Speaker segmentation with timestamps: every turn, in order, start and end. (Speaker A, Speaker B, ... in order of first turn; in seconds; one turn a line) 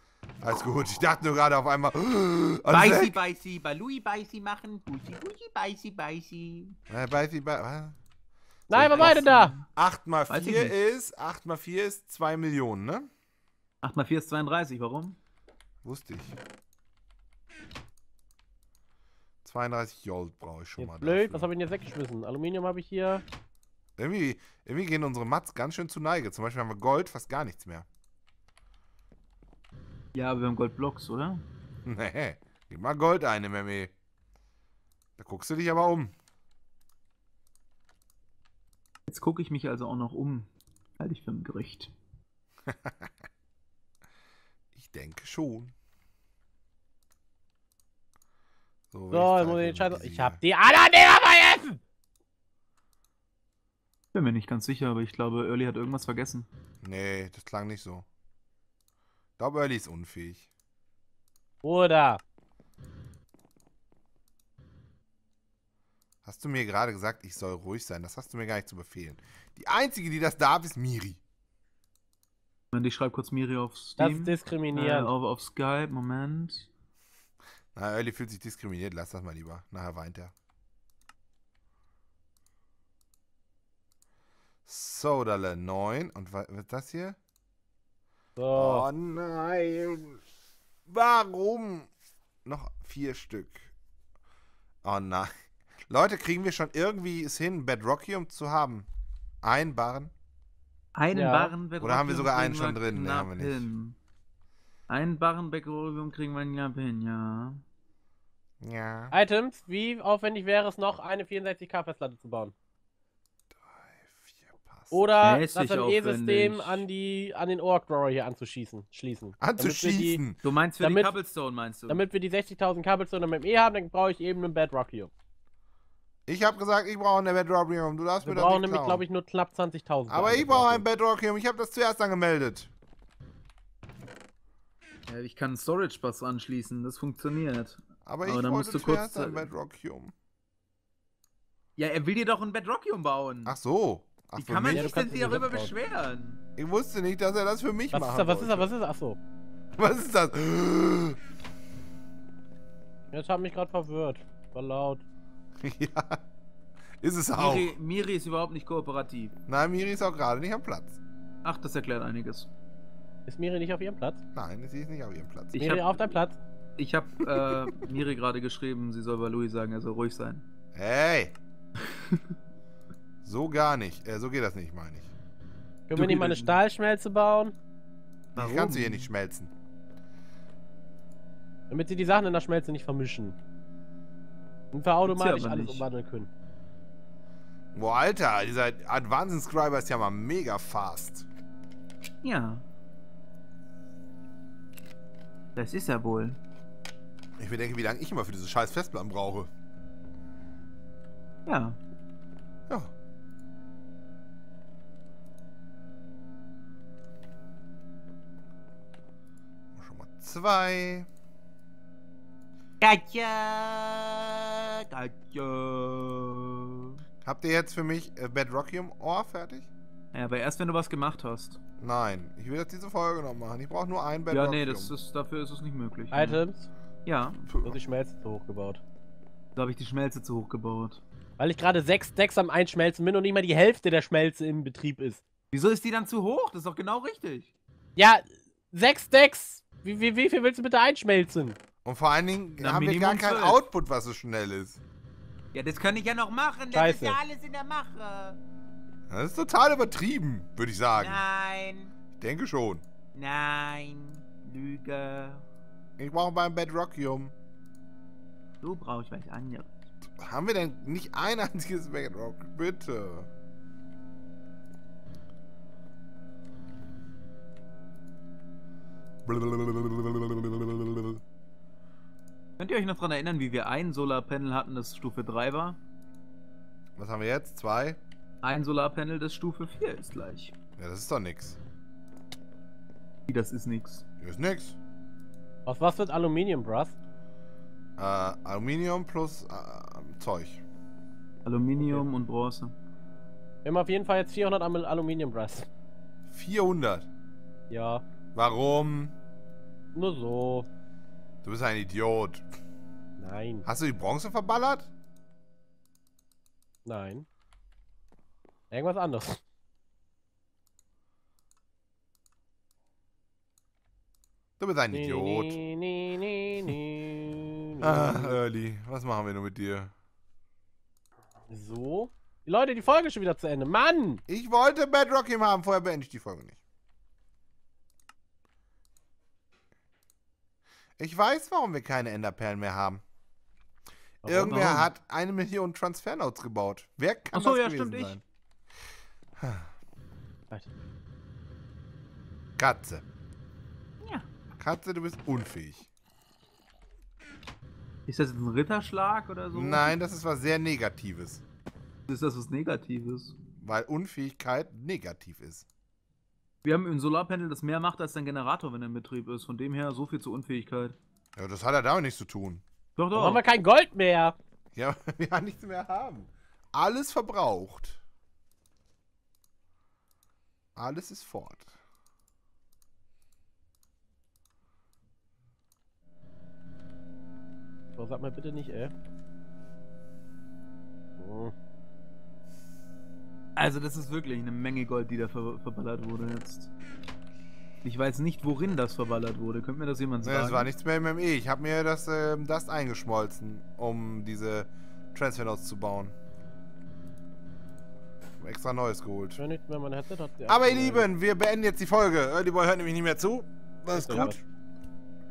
Speaker A: 0.4-3.2
Speaker B: 2.7-6.8
Speaker A: 6.9-8.0
Speaker C: 8.7-9.5
Speaker A: 8.7-13.1
Speaker B: 8.8-9.6
Speaker B: 10.3-10.7
Speaker B: 13.8-15.2
Speaker A: 15.8-16.4
Speaker A: 19.4-21.5
Speaker C: 20.8-23.2
Speaker A: 24.0-27.9
Speaker B: 30.1-31.4
Speaker A: 31.8-33.9
Speaker A: 35.2-36.1
Speaker B: 39.1-40.5
Speaker B: 41.0-41.9
Speaker A: 42.7-43.1
Speaker A: 44.7-45.7
Speaker A: 48.9-50.4
Speaker C: 49.1-51.8
Speaker B: 54.1-56.5
Speaker A: 56.8-58.0
Speaker A: 59.4-60.5
Speaker C: 61.6-62.2
Speaker A: 66.2-71.2
Speaker B: 72.7-76.7
Speaker C: 74.0-75.1
Speaker A: 77.7-80.3
Speaker A: 84.7-87.2
Speaker C: 88.3-88.8
Speaker A: 88.5-90.2
Speaker A: 90.9-91.9
Speaker A: 92.4-93.7
Speaker A: 94.8-95.3
Speaker A: 95.9-98.9
Speaker A: 99.4-100.1
Speaker B: 100.9-104.0
Speaker C: 101.1-101.5
Speaker A: 101.8-103.7
Speaker B: 104.9-107.6
Speaker A: 108.6-109.1
Speaker C: 109.1-112.5
Speaker A: 113.7-115.0
Speaker C: 114.9-120.2
Speaker B: 115.2-116.8
Speaker A: 119.4-120.4
Speaker B: 120.4-122.0
Speaker C: 120.8-121.2
Speaker C: 121.9-125.1
Speaker A: 126.3-129.0
Speaker C: 128.2-130.8
Speaker A: 130.1-132.7
Speaker B: 135.1-139.5
Speaker A: 138.1-140.1
Speaker B: 141.8-143.6
Speaker A: 143.4-145.0
Speaker B: 144.4-146.4
Speaker C: 144.7-145.7
Speaker A: 146.6-148.7
Speaker C: 147.9-149.2
Speaker A: 149.8-151.2
Speaker C: 153.1-155.0
Speaker A: 155.6-156.2
Speaker A: 157.0-157.7
Speaker B: 157.3-159.3
Speaker A: 159.5-161.0
Speaker B: 161.4-162.5
Speaker C: 163.3-164.2
Speaker A: 164.3-165.6
Speaker B: 165.5-166.1
Speaker C: 165.6-166.4
Speaker B: 166.8-170.4
Speaker A: 170.7-171.3
Speaker A: 173.2-175.1
Speaker C: 175.9-177.5
Speaker B: 175.9-176.6
Speaker A: 178.3-179.5
Speaker B: 178.3-179.1
Speaker C: 181.7-183.4
Speaker C: 184.7-186.3
Speaker B: 185.1-185.8
Speaker A: 187.7-191.3
Speaker B: 192.2-192.6
Speaker B: 195.6-196.4
Speaker A: 197.4-199.5
Speaker B: 201.4-201.8
Speaker A: 209.7-211.1
Speaker B: 212.8-217.0
Speaker A: 217.2-219.7
Speaker B: 220.1-221.6
Speaker A: 221.8-224.9
Speaker B: 224.3-226.4
Speaker C: 226.1-226.7
Speaker B: 227.0-227.4
Speaker A: 227.5-227.8
Speaker C: 227.6-228.8
Speaker B: 229.6-231.0
Speaker C: 231.4-235.2
Speaker B: 235.5-237.5
Speaker C: 237.9-241.6
Speaker A: 241.8-244.8
Speaker B: 242.6-243.6
Speaker B: 245.5-248.4
Speaker C: 246.7-247.2
Speaker A: 249.1-251.2
Speaker B: 250.9-251.9
Speaker A: 252.2-252.8
Speaker B: 253.1-255.4
Speaker A: 256.0-257.3
Speaker B: 258.6-259.7
Speaker A: 260.2-263.3
Speaker A: 269.2-271.2
Speaker B: 272.6-275.8
Speaker A: 277.0-278.0
Speaker B: 278.4-280.5
Speaker A: 280.8-281.6
Speaker B: 283.3-284.0
Speaker A: 284.2-284.8
Speaker C: 285.6-286.9
Speaker A: 288.0-290.6
Speaker B: 291.4-292.7
Speaker C: 293.6-295.7
Speaker A: 296.3-297.1
Speaker C: 297.7-298.0
Speaker A: 298.3-299.1
Speaker C: 299.9-300.7
Speaker A: 301.4-302.4
Speaker C: 303.2-303.6
Speaker A: 303.6-304.9
Speaker C: 306.8-307.2
Speaker C: 308.7-309.4
Speaker A: 314.6-315.6
Speaker C: 314.9-318.4
Speaker A: 317.8-319.9
Speaker C: 321.5-324.2
Speaker A: 324.3-326.6
Speaker A: 331.0-333.0
Speaker C: 334.2-334.8
Speaker A: 334.2-338.2
Speaker B: 334.5-334.9
Speaker B: 337.3-338.2
Speaker A: 339.4-339.7
Speaker A: 342.6-343.0
Speaker A: 344.6-345.9
Speaker B: 348.1-349.9
Speaker A: 349.5-351.4
Speaker B: 352.1-353.4
Speaker A: 353.6-355.6
Speaker B: 356.6-360.9
Speaker A: 361.4-362.6
Speaker B: 363.0-363.4
Speaker C: 363.1-364.4
Speaker A: 364.7-368.0
Speaker A: 370.8-371.7
Speaker C: 377.9-378.9
Speaker C: 381.2-381.5
Speaker B: 383.6-386.7
Speaker B: 387.8-390.7
Speaker A: 390.2-396.1
Speaker A: 398.4-399.4
Speaker C: 399.4-401.1
Speaker A: 400.5-404.4
Speaker C: 403.9-404.4